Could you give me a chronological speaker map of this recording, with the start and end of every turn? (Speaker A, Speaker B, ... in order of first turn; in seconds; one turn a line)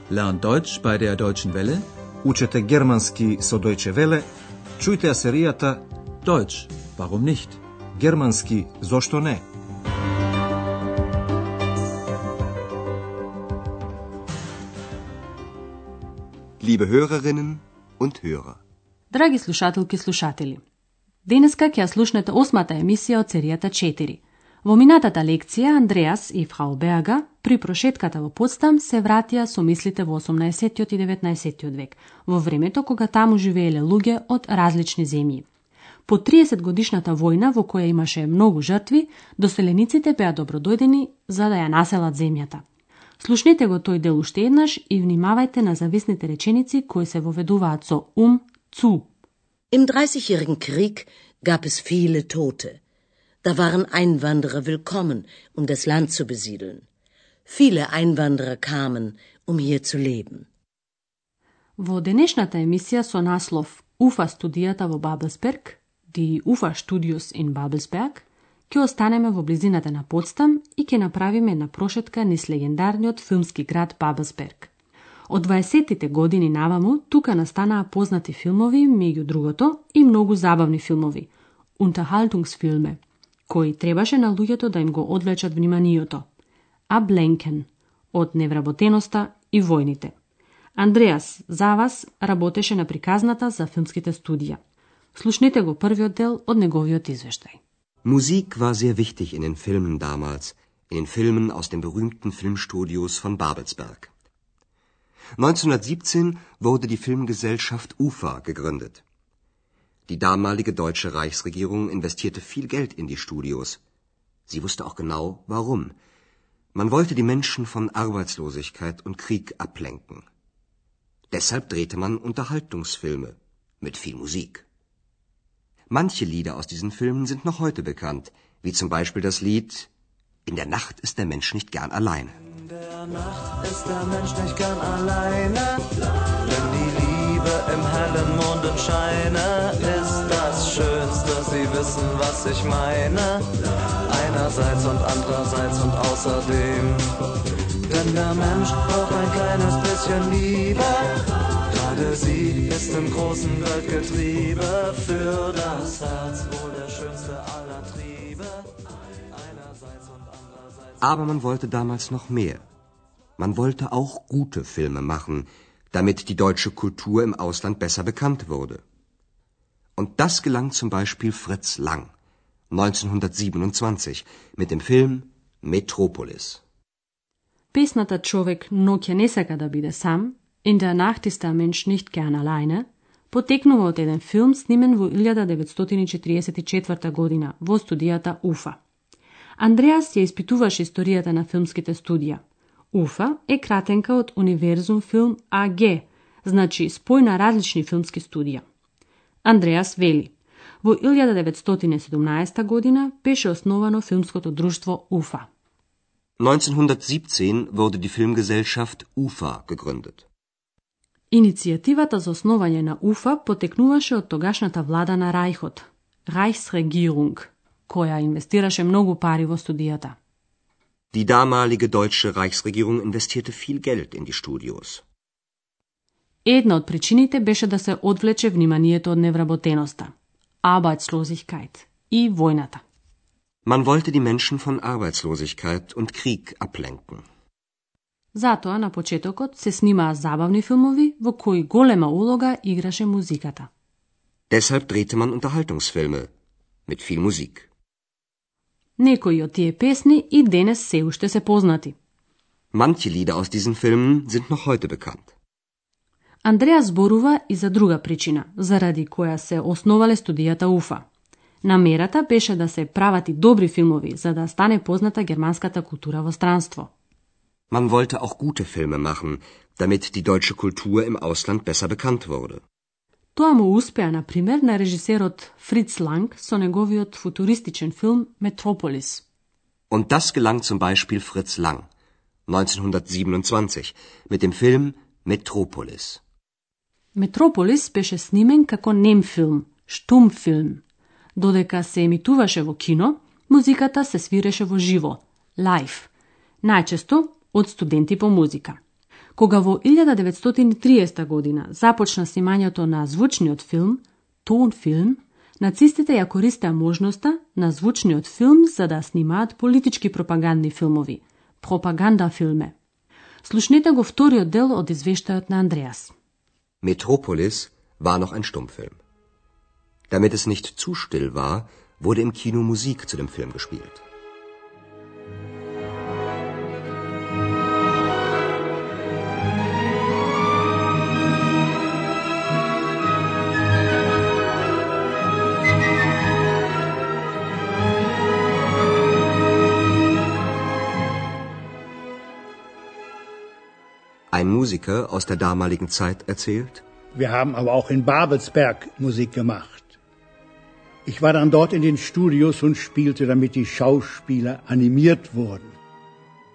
Speaker A: 0.1-1.8
Speaker B: 2.2-4.3
Speaker B: 4.8-5.8
Speaker A: 6.3-7.6
Speaker B: 8.0-9.4
Speaker C: 16.6-18.6
Speaker D: 19.1-20.6
Speaker D: 21.2-35.5
Speaker D: 36.1-42.6
Speaker D: 43.2-49.1
Speaker E: 49.7-52.8
Speaker E: 53.4-56.8
Speaker E: 57.5-60.5
Speaker D: 61.8-74.7
Speaker D: 75.3-86.3
Speaker D: 86.9-90.1
Speaker D: 90.8-94.6
Speaker D: 95.2-97.6
Speaker C: 98.0-104.1
Speaker C: 105.4-109.0
Speaker C: 110.1-113.8
Speaker C: 114.5-116.0
Speaker C: 116.8-120.3
Speaker C: 121.3-124.7
Speaker C: 125.9-129.9
Speaker C: 130.5-132.4
Speaker F: 133.0-135.9
Speaker F: 136.4-143.5
Speaker F: 144.1-147.2
Speaker F: 147.9-158.6
Speaker C: 161.0-162.7
Speaker C: 163.4-168.8
Speaker C: 170.0-172.1
Speaker C: 172.7-176.6
Speaker D: 177.7-188.8
Speaker D: 189.6-198.6
Speaker D: 199.4-205.5
Speaker C: 206.4-210.2
Speaker D: 211.3-220.2
Speaker C: 221.1-225.0
Speaker D: 226.4-230.1
Speaker D: 230.6-232.8
Speaker C: 233.7-237.2
Speaker D: 238.3-243.7
Speaker C: 244.5-246.3
Speaker C: 246.9-247.7
Speaker D: 249.0-251.9
Speaker C: 252.7-255.3
Speaker D: 256.4-261.1
Speaker D: 261.6-266.9
Speaker C: 267.7-272.6
Speaker D: 273.4-279.2
Speaker C: 279.9-281.9
Speaker C: 282.5-286.2
Speaker D: 287.1-290.8
Speaker D: 291.4-296.1
Speaker D: 296.6-298.8
Speaker D: 299.4-312.8
Speaker D: 313.4-316.1
Speaker C: 316.8-319.0
Speaker C: 320.1-324.0
Speaker C: 344.3-346.8
Speaker G: 347.1-350.0
Speaker G: 351.1-355.7